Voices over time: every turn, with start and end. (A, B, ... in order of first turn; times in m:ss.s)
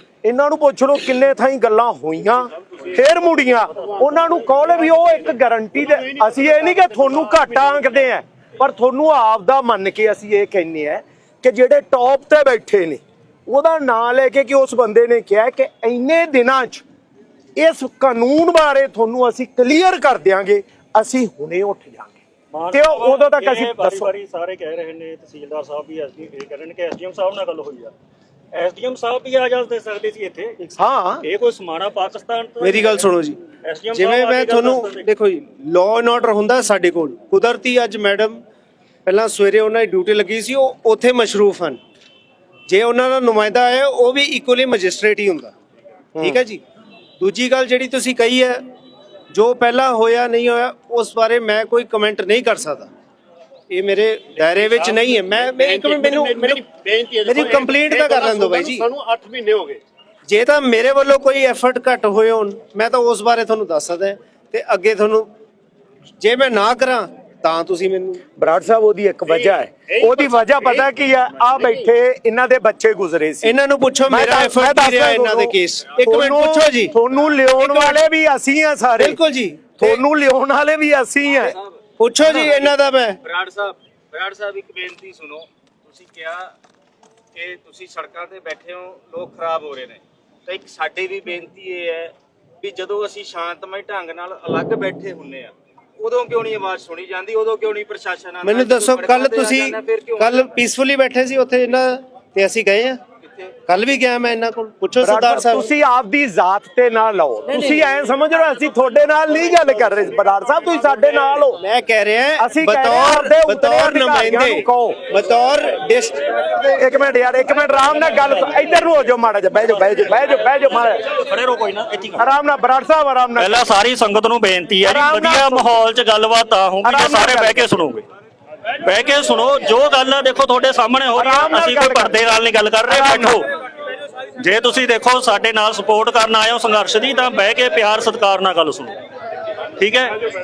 0:00.2-0:16.8 A
0:06.2-0:07.5 B
0:17.6-0:22.2 A
0:22.5-0:27.9 C
0:22.7-0:24.1 A
0:28.5-0:33.0 C
0:30.8-0:31.2 A
0:32.6-0:33.4 D
0:33.6-0:35.1 C
0:33.9-0:38.4 D
0:39.0-0:41.8 D
0:42.7-0:45.5 D
0:46.2-0:46.6 D
0:47.2-0:48.6 D
0:49.3-0:52.9 D
0:53.7-0:56.7 D
0:55.4-0:59.8 B
0:57.2-0:58.9 D
1:00.3-1:05.3 D
1:06.2-1:08.2 D
1:08.4-1:13.6 A
1:13.4-1:17.0 D
1:14.1-1:19.2 A
1:17.6-1:18.0 D
1:19.0-1:20.0 D
1:19.8-1:21.6 A
1:22.0-1:23.2 D
1:23.2-1:26.5 E
1:27.3-1:40.3 E
1:38.4-1:43.0 D
1:43.7-1:45.7 D
1:45.0-1:51.6 A
1:51.6-1:56.7 D
1:52.4-1:55.0 A
1:56.8-2:01.0 A
2:01.1-2:02.2 C
2:02.2-2:03.6 A
2:03.4-2:08.0 C
2:04.8-2:05.8 A
2:06.8-2:07.6 A
2:08.8-2:13.4 C
2:11.2-2:12.2 A
2:12.9-2:13.4 A
2:14.4-2:19.0 C
2:19.8-2:20.2 C